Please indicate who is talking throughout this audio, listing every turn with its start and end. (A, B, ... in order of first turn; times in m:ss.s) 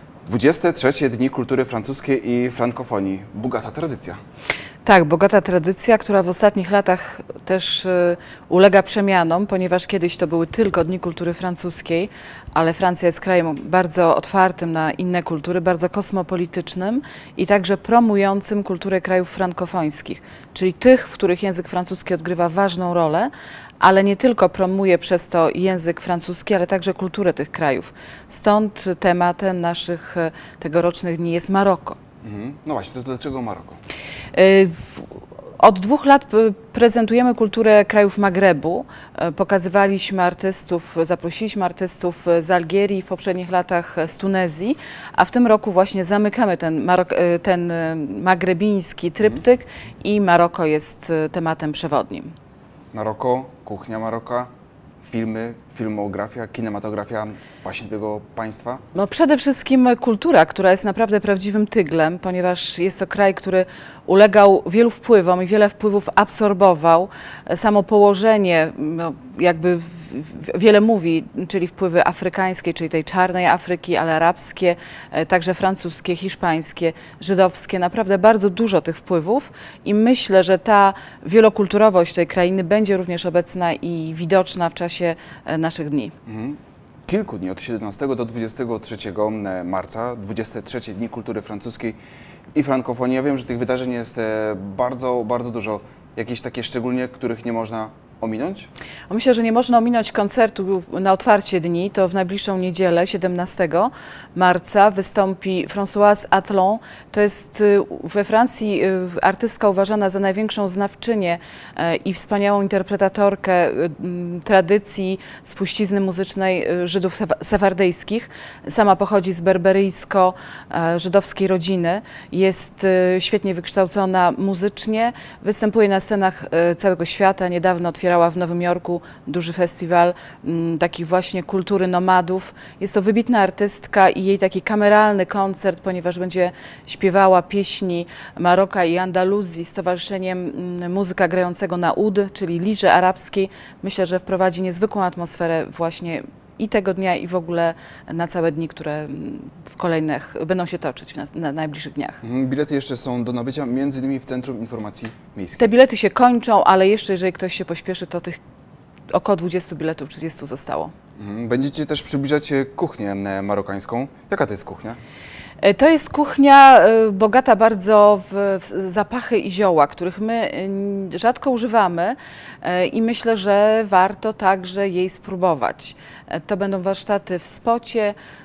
0:00.2-0:04.2 A
0:04.8-0:32.0 B
0:32.2-0:33.8 A
0:34.3-0:52.3 B
0:52.9-0:54.5 A
0:55.0-0:58.8 A
0:58.9-1:26.1 B
1:26.3-1:32.0 A
1:32.5-1:38.7 A
1:39.1-2:32.2 B
2:32.2-2:35.7 A
2:35.6-2:38.4 B
2:39.1-2:40.9 B
2:41.2-2:45.0 A
2:45.6-2:58.1 B